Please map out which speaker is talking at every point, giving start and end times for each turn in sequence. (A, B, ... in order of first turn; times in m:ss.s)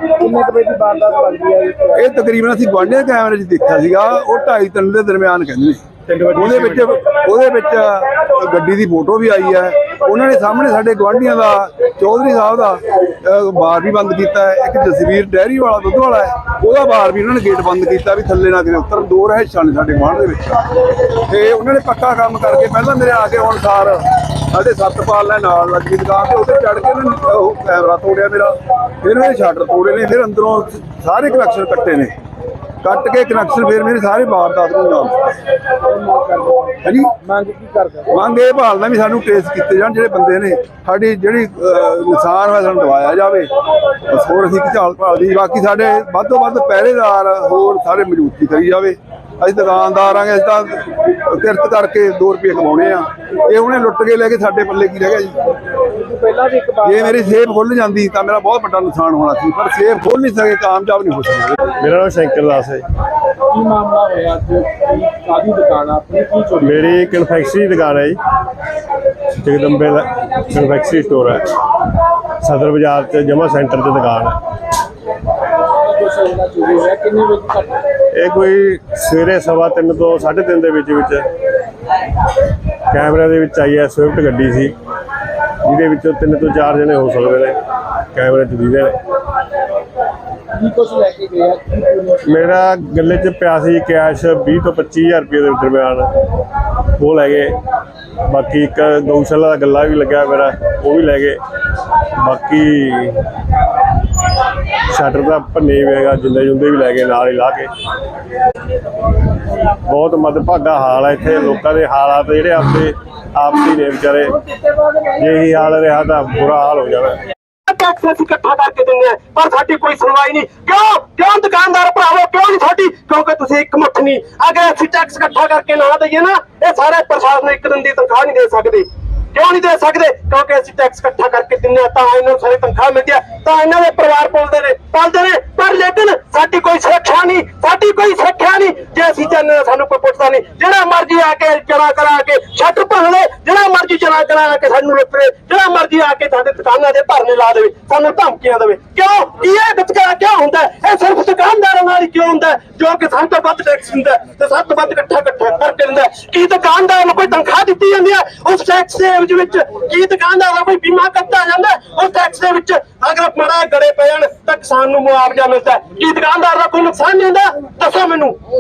0:00.2-0:02.1 A
0:02.0-0:20.6 B
0:06.1-0:06.9 C
0:21.3-0:32.1 B
0:32.8-0:35.3 B
0:35.8-0:38.2 A
0:36.8-0:37.2 B
0:38.1-0:43.5 B
0:44.1-0:55.4 B
0:55.9-0:57.4 A
0:56.8-1:01.7 B
1:01.7-1:02.8 C
1:03.5-1:06.9 A
1:06.6-1:08.2 C
1:09.4-1:11.6 C
1:12.4-1:14.4 C
1:15.8-1:17.8 A
1:18.1-1:21.2 C
1:22.9-1:24.8 C
1:25.6-1:27.6 C
1:28.1-1:29.0 C
1:30.6-1:32.3 A
1:32.2-1:36.1 C
1:37.0-1:37.6 C
1:38.3-1:41.4 C
1:42.2-1:43.2 C
1:44.9-1:47.7 C
1:49.8-1:57.2 C
1:57.7-2:48.4 D